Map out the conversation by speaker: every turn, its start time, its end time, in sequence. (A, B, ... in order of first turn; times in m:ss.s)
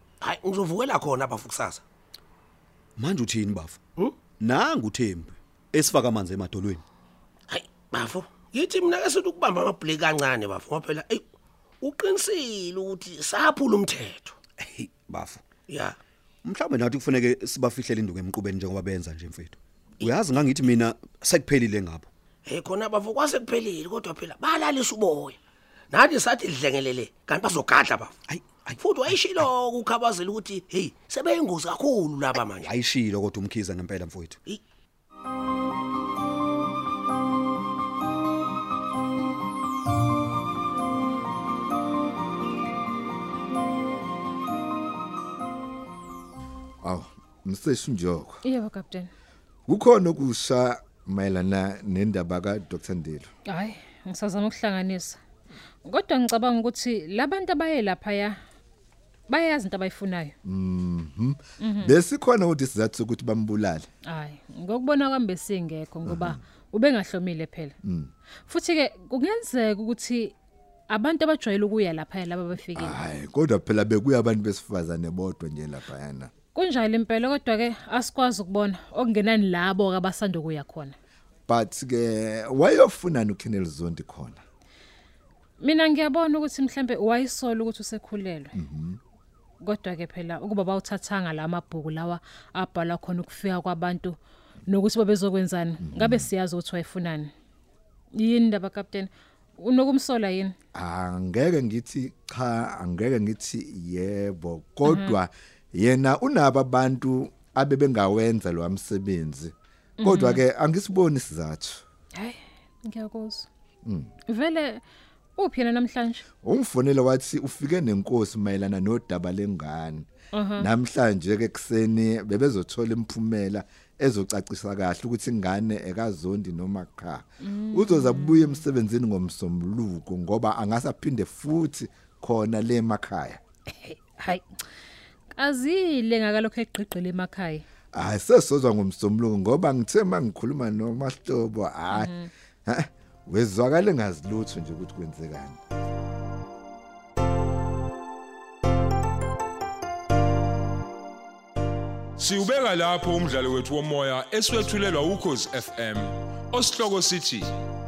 0:00.2-0:01.8 A
0:03.0-0:03.8 B
0:04.4-0:06.8 B
0:07.5-0:11.2 A
0:11.8-0:14.4 A
0:14.6-0:15.4 B
0:15.7-0:16.0 A
0:16.4-0:22.1 B
0:22.5-0:25.4 A
0:25.9-0:28.1 A
0:28.3-0:29.4 B
0:28.8-0:32.7 A
0:32.5-0:34.4 B
0:46.8-0:48.4 C
0:48.4-0:49.1 D
0:49.7-0:53.3 C
0:53.5-0:55.2 D
0:55.8-0:58.4 D
0:59.3-1:00.4 D
1:00.4-1:03.9 C
1:01.6-1:02.0 D
1:04.1-1:07.8 D
1:06.0-1:06.4 C
1:07.8-1:08.1 C
1:08.5-1:10.4 D
1:10.9-1:13.0 D
1:12.7-1:16.3 C
1:16.6-1:21.0 D
1:21.5-1:24.4 C
1:25.6-1:28.5 D
1:28.5-1:29.0 C
1:29.6-1:37.3 D
1:35.8-1:36.3 C
1:38.2-1:40.5 D
1:40.8-1:51.8 C
1:44.8-1:45.2 D
1:50.0-1:50.4 D
1:52.2-1:53.5 D
1:53.8-1:54.1 C
1:54.3-1:54.8 D
1:55.4-1:56.2 D
1:56.4-2:13.4 C
2:00.3-2:00.7 D
2:07.4-2:08.6 D
2:13.8-2:14.4 D
2:15.3-2:17.6 D
2:17.9-2:22.1 C
2:21.9-2:22.3 D
2:22.7-2:25.6 C
2:32.2-2:37.5 E